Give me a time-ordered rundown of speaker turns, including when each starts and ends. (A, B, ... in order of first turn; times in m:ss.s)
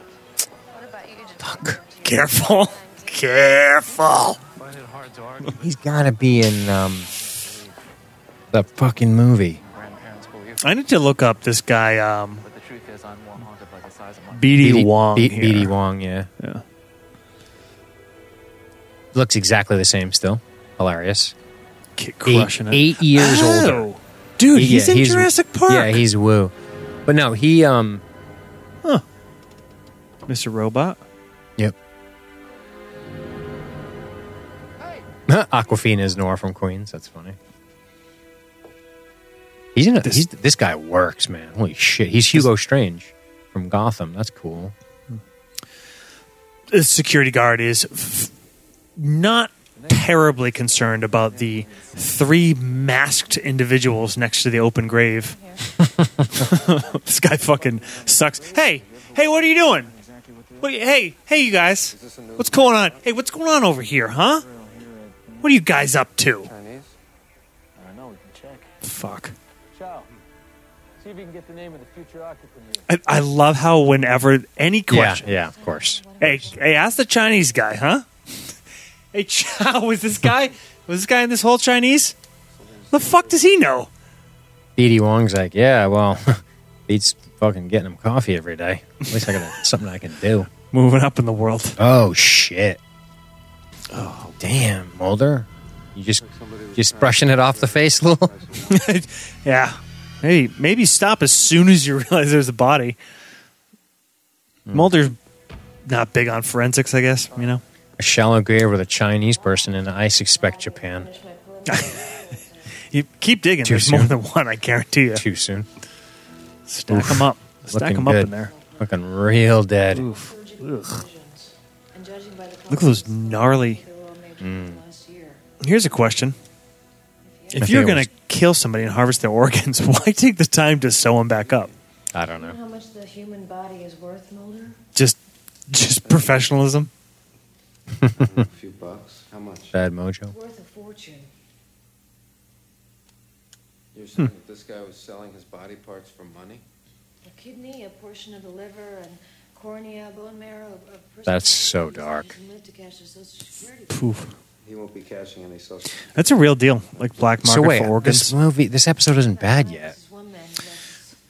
0:00.7-0:03.8 A
0:01.4-0:01.8 B
0:02.0-0:04.4 C
0:04.5-0:07.8 D
0:05.6-0:07.1 B
0:08.5-0:09.6 B
0:09.6-0:10.9 D
0:10.6-0:12.4 C
0:12.4-0:14.6 D
0:14.3-0:15.7 C
0:14.6-0:16.3 B
0:19.1-0:21.3 B
0:22.0-0:26.0 C
0:22.2-0:23.9 B
0:24.5-0:26.5 B
0:27.0-0:28.0 B
0:30.3-0:31.0 C
0:35.3-0:37.4 B
0:39.7-0:44.7 B
0:46.7-0:48.3 C
0:49.0-0:55.4 C
0:49.8-0:53.2 D
0:55.2-0:55.7 A
0:56.3-0:59.9 C
0:56.4-1:00.8 D
1:00.6-1:04.4 C
1:01.9-1:02.7 E
1:04.4-1:05.6 D
1:05.4-1:06.5 C
1:06.4-1:07.0 E
1:07.8-1:08.8 D
1:08.8-1:09.3 C
1:09.7-1:10.1 D
1:11.0-1:12.9 D
1:12.9-1:15.3 C
1:14.9-1:16.0 B
1:15.2-1:17.5 A
1:16.2-1:18.0 C
1:19.1-1:22.2 C
1:22.9-1:23.9 C
1:24.8-1:30.5 B
1:30.7-1:31.8 C
1:31.8-1:32.8 B
1:33.9-1:34.3 C
1:34.2-1:36.2 B
1:36.2-1:38.9 E
1:36.7-1:38.3 B
1:38.6-1:43.0 C
1:44.7-1:44.9 B
1:44.7-1:45.2 C
1:45.8-1:47.6 C
1:48.0-1:51.1 B
1:49.0-1:52.8 A
1:51.7-1:52.1 C
1:52.8-1:55.2 C
1:53.6-1:54.2 B
1:55.1-1:55.7 B
1:56.7-1:58.5 C
1:56.9-2:00.1 B
1:58.2-1:59.1 A
1:59.9-2:01.0 C
1:59.9-2:05.4 A
2:02.7-2:03.8 C
2:04.4-2:04.8 B
2:05.6-2:06.4 C
2:07.2-2:08.0 A
2:07.5-2:11.7 C
2:07.6-2:08.1 B
2:12.1-2:12.6 B
2:12.3-2:14.8 A
2:15.7-2:16.9 C
2:16.0-2:16.4 E
2:18.1-2:19.8 E
2:18.2-2:18.4 B
2:19.7-2:20.3 B
2:20.3-2:21.3 A
2:23.9-2:26.6 E
2:27.2-2:34.2 A
2:31.2-2:32.3 B
2:33.9-2:34.3 C
2:34.6-2:37.1 E
2:36.1-2:38.3 C
2:37.4-2:39.9 B
2:39.2-2:41.1 A